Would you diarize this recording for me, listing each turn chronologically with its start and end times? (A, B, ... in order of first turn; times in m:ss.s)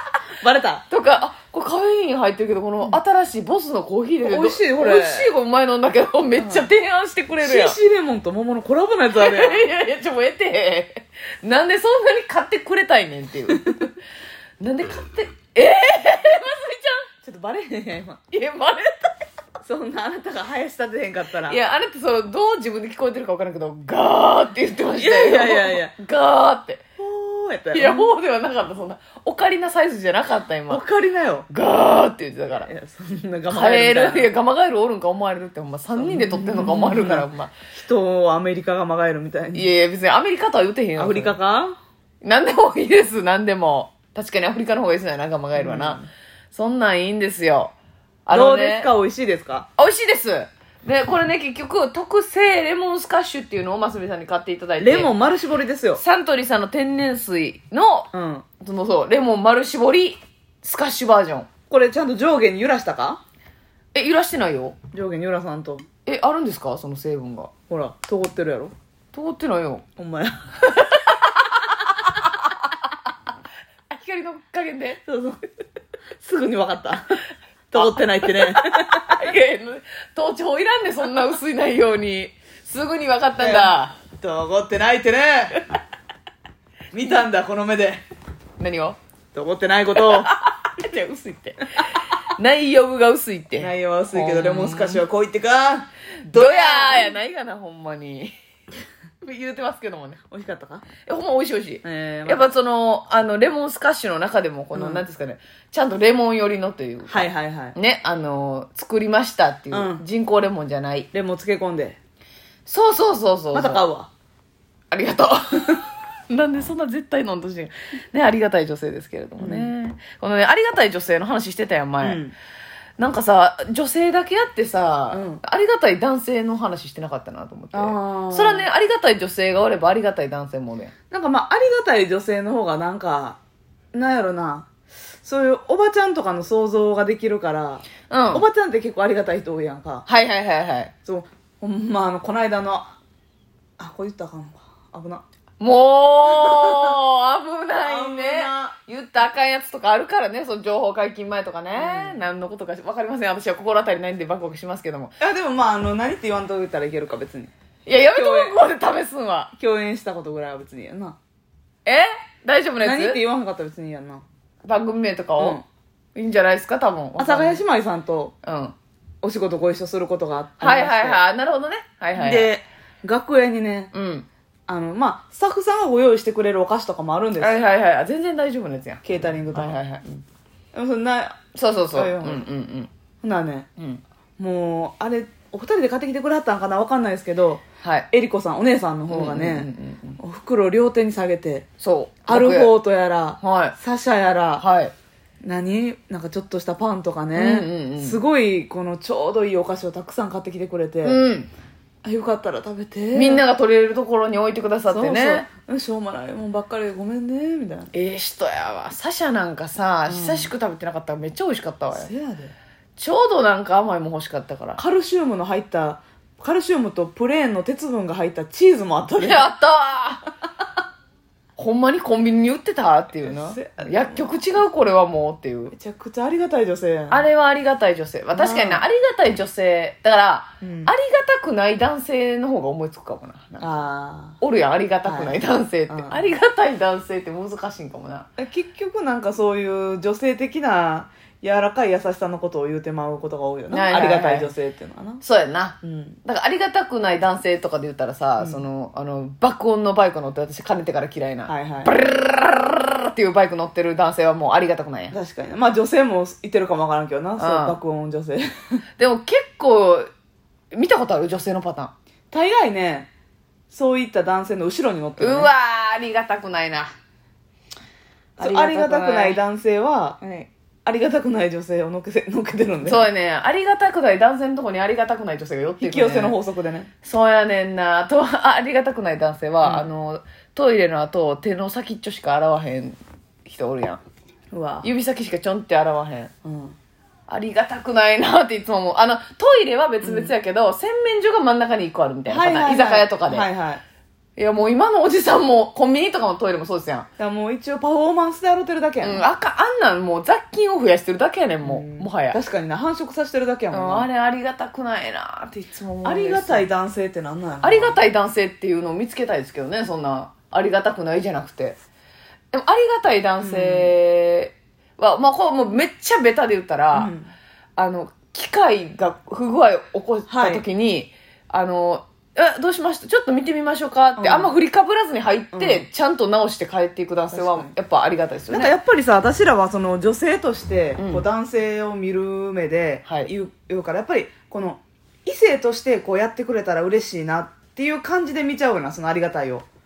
0:00.4-0:00.8 A
0:00.9-0:07.8 B
0:04.2-0:05.3 A
0:06.4-0:06.7 A
0:07.4-0:09.7 A
0:09.2-0:13.9 B
0:14.6-0:17.1 B
0:17.2-0:18.2 A
0:18.3-0:19.1 B
0:19.6-0:21.6 A
0:21.5-0:26.8 B
0:24.9-0:25.9 A
0:27.0-0:28.1 A
0:27.7-0:30.8 B
0:30.7-0:31.5 A
0:31.5-0:32.7 B
0:32.6-0:34.3 A
0:33.5-0:37.5 B
0:36.0-0:39.7 A
0:39.5-0:41.4 B
0:41.0-0:41.8 A
0:42.2-0:46.0 B
0:45.6-0:46.1 A
0:46.5-0:47.7 B
0:48.3-0:48.9 B
0:48.3-0:49.7 A
0:49.8-0:55.1 B
0:54.8-0:56.0 A
0:56.0-0:58.1 B
0:58.1-0:58.5 A
0:58.6-1:01.5 B
1:01.7-1:03.2 A
1:03.9-1:04.8 B
1:04.9-1:05.9 A
1:06.1-1:07.5 B
1:07.7-1:08.7 A
1:09.1-1:09.8 B
1:10.0-1:10.5 A
1:10.7-1:12.3 B
1:13.9-1:15.0 B
1:15.1-1:15.4 A
1:16.2-1:17.2 A
1:17.7-1:19.2 A
1:17.8-1:24.0 B
1:23.4-1:25.6 A
1:26.9-1:28.0 A
1:28.6-1:29.0 B
1:29.3-1:30.3 A
1:30.1-1:31.8 B
1:32.4-1:35.0 B
1:33.6-1:37.2 A
1:36.3-1:38.3 B
1:39.2-1:40.2 B
1:40.3-1:40.9 A
1:41.0-1:51.1 B
1:41.8-1:42.5 A
1:44.7-1:45.1 A
1:47.1-1:47.8 A
1:49.7-1:50.0 A
1:51.1-1:52.0 A
1:52.7-1:53.8 B
1:53.5-1:54.1 A
1:54.9-2:02.2 B
1:59.4-1:59.7 A
2:02.0-2:02.4 A
2:03.0-2:10.9 B
2:05.1-2:05.4 A
2:07.7-2:08.7 A
2:11.1-2:13.4 A
2:13.9-2:14.7 A
2:15.2-2:20.1 A
2:18.1-2:18.4 B
2:20.1-2:20.9 B
2:21.1-2:23.0 A
2:23.8-2:25.2 A
2:25.6-2:35.2 B
2:26.4-2:26.9 A
2:27.8-2:28.8 A
2:31.8-2:32.2 A
2:35.2-2:37.5 A
2:37.9-2:39.5 B
2:38.1-2:38.6 A
2:39.6-2:41.2 A
2:41.8-2:43.2 B
2:42.8-2:44.2 A
2:44.6-2:45.6 B
2:45.4-2:45.6 A
2:46.2-2:47.6 B
2:47.2-2:48.3 A
2:48.4-2:48.8 B
2:49.2-2:51.2 A
2:50.6-2:52.5 B
2:52.2-2:53.9 A
2:53.9-2:54.3 B
2:54.7-2:57.6 A
2:57.4-3:00.2 B
2:59.0-2:59.8 A
3:00.7-3:01.4 A
3:01.6-3:02.9 B
3:01.9-3:02.5 A
3:03.2-3:03.7 A
3:03.8-3:04.0 B
3:04.4-3:11.7 A
3:07.8-3:08.1 B
3:09.1-3:10.2 B
3:11.8-3:12.7 B
3:12.3-3:14.6 A
3:13.4-3:13.8 B
3:14.6-3:14.9 B
3:15.4-3:21.2 A
3:17.4-3:18.2 B
3:21.0-3:21.5 B
3:22.0-3:23.5 A
3:23.1-3:25.5 B
3:24.9-3:27.9 A
3:27.9-3:32.1 B
3:30.1-3:30.5 A
3:31.9-3:32.6 A
3:33.0-3:34.8 B
3:34.8-3:39.5 A
3:39.2-3:40.3 B
3:41.6-3:45.8 B
3:43.2-3:44.4 A
3:45.7-3:47.3 A
3:47.1-3:53.8 B
3:48.3-3:48.8 A
3:50.6-3:50.9 A
3:53.6-3:54.4 A
3:54.4-3:58.3 B
3:55.0-3:56.3 A
3:58.4-4:05.2 A
4:03.7-4:04.5 B
4:05.2-4:15.2 B
4:05.8-4:06.2 A
4:11.5-4:11.9 A
4:15.1-4:18.8 A
4:17.4-4:17.8 B
4:19.0-4:20.1 B
4:20.7-4:21.9 B
4:22.3-4:23.1 A
4:23.7-4:25.5 A
4:25.2-4:26.9 B
4:28.4-4:29.4 B
4:28.4-4:33.1 A
4:32.8-4:36.4 B
4:35.8-4:36.9 A
4:37.0-4:44.0 B
4:39.6-4:39.9 A
4:44.5-4:44.9 A
4:44.8-4:46.3 B
4:46.4-4:46.8 A
4:47.3-4:53.5 B
4:50.0-4:50.3 A
4:52.3-4:53.8 A
4:54.4-4:57.1 B
4:57.2-4:59.3 A
4:59.0-5:02.4 B
5:01.6-5:04.1 A
5:03.7-5:06.7 B
5:06.0-5:08.0 A
5:07.6-5:11.8 B
5:12.5-5:17.1 B
5:13.4-5:13.9 A
5:16.9-5:17.3 A
5:17.8-5:28.7 B
5:20.3-5:20.6 A
5:24.2-5:24.5 A
5:25.5-5:25.9 A
5:27.3-5:27.7 A
5:28.5-5:39.7 A
5:31.0-5:31.2 B